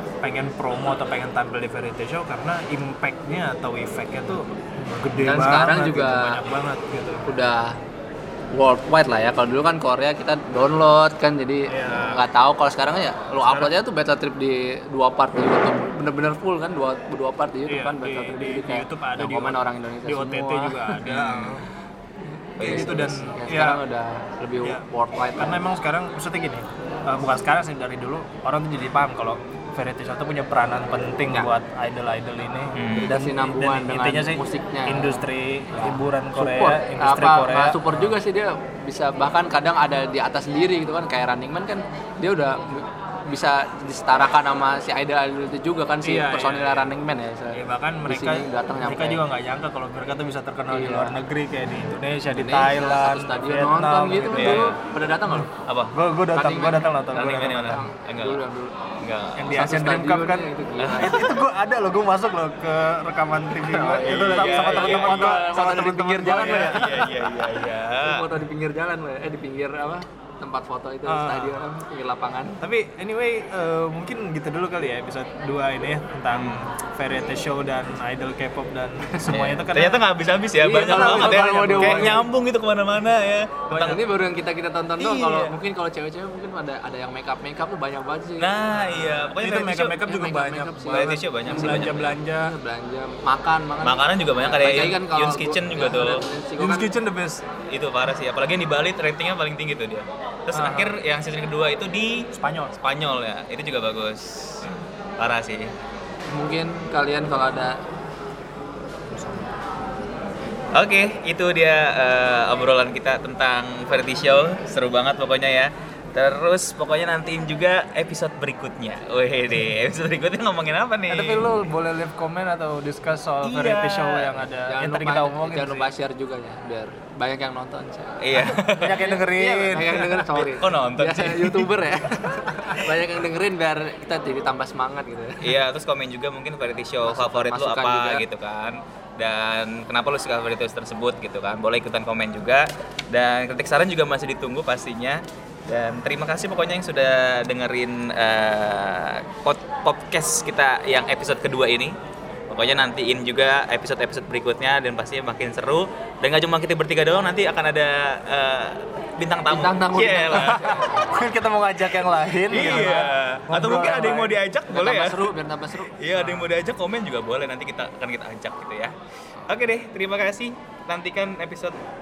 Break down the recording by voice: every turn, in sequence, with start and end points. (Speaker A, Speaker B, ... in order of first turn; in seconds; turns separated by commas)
Speaker A: 0.2-7.3, Speaker B: 5.1-6.4, Speaker B: 7.2-7.7, Speaker B: 8.5-21.0, Speaker A: 11.7-12.2, Speaker A: 13.4-13.7, Speaker A: 17.7-21.7, Speaker C: 21.1-21.6, Speaker B: 22.6-25.6, Speaker C: 22.6-23.2, Speaker A: 22.6-23.8, Speaker A: 25.4-38.1, Speaker C: 32.7-33.1, Speaker B: 33.0-49.2, Speaker A: 46.0-46.9, Speaker A: 47.5-54.7, Speaker B: 50.7-51.2, Speaker B: 52.3-55.5, Speaker C: 54.4-54.8, Speaker A: 55.3-57.8, Speaker C: 55.6-56.0, Speaker B: 56.3-59.0, Speaker C: 57.2-58.4, Speaker C: 59.0-59.5, Speaker A: 59.4-60.5, Speaker B: 59.5-61.4, Speaker C: 60.8-61.2, Speaker A: 61.0-67.3, Speaker B: 63.6-67.0, Speaker C: 64.0-65.4, Speaker C: 66.3-68.2, Speaker B: 68.0-72.6, Speaker A: 71.0-71.6, Speaker A: 72.6-80.0, Speaker C: 76.3-76.7, Speaker C: 79.3-84.0, Speaker B: 80.6-82.3, Speaker A: 80.7-82.2, Speaker A: 83.7-84.0, Speaker B: 83.7-89.3, Speaker A: 85.0-85.5, Speaker C: 88.4-90.0, Speaker A: 89.0-92.5, Speaker B: 90.0-96.9, Speaker C: 90.9-92.1, Speaker C: 93.8-96.2, Speaker A: 96.6-97.4, Speaker C: 97.7-102.2, Speaker A: 100.5-100.9, Speaker A: 102.3-102.8, Speaker C: 102.8-104.7, Speaker C: 105.2-105.7, Speaker B: 106.3-107.8, Speaker A: 109.1-109.5, Speaker C: 110.7-121.5, Speaker A: 121.1-125.9, Speaker C: 123.4-124.4, Speaker B: 124.7-135.6, Speaker C: 128.2-129.1, Speaker A: 128.7-130.5, Speaker C: 130.3-131.8, Speaker C: 135.4-151.9, Speaker B: 137.0-138.2, Speaker C: 152.5-160.9, Speaker B: 159.5-161.2, Speaker A: 160.3-164.2, Speaker C: 162.5-165.3, Speaker B: 162.5-163.0, Speaker B: 163.6-166.5, Speaker C: 166.0-168.9, Speaker C: 169.5-171.7